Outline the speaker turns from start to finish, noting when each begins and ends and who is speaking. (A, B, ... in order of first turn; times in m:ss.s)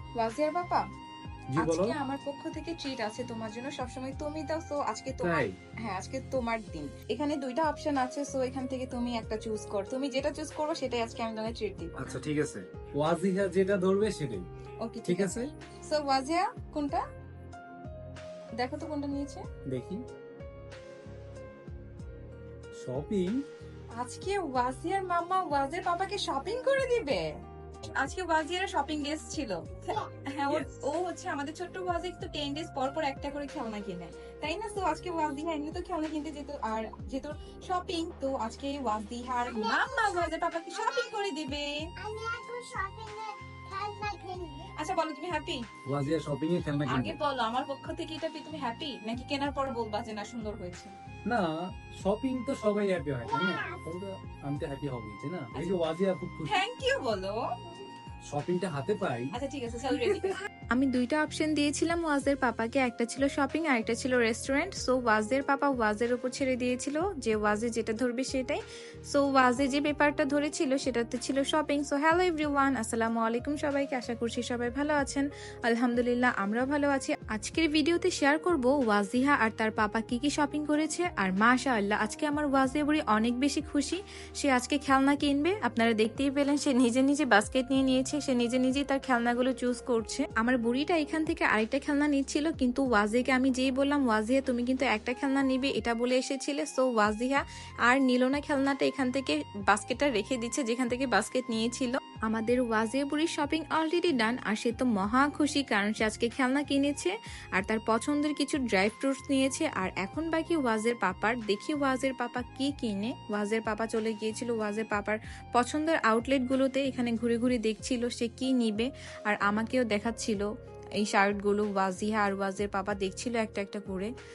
0:00.2-0:00.8 A
0:01.5-0:02.0 B
0:01.6-0:12.2 A
0:05.2-0:05.6 B
0:12.0-0:14.5 B
0:14.8-0:17.0 A
0:15.0-0:15.5 B
0:18.6-0:19.4 A
0:19.7-0:20.0 B
0:22.8-0:23.4 B
0:24.0-0:27.3 A
0:27.9-0:41.9 A
0:30.5-0:30.7 B
0:39.5-0:41.1 C
0:42.0-0:44.7 C
0:44.7-0:45.6 A
0:45.9-0:47.2 B
0:46.9-0:50.9 A
0:51.3-0:56.6 B
0:53.3-0:53.8 C
0:56.4-0:57.8 A
0:58.3-0:59.3 B
0:59.3-2:00.5 A
2:01.0-2:04.1 A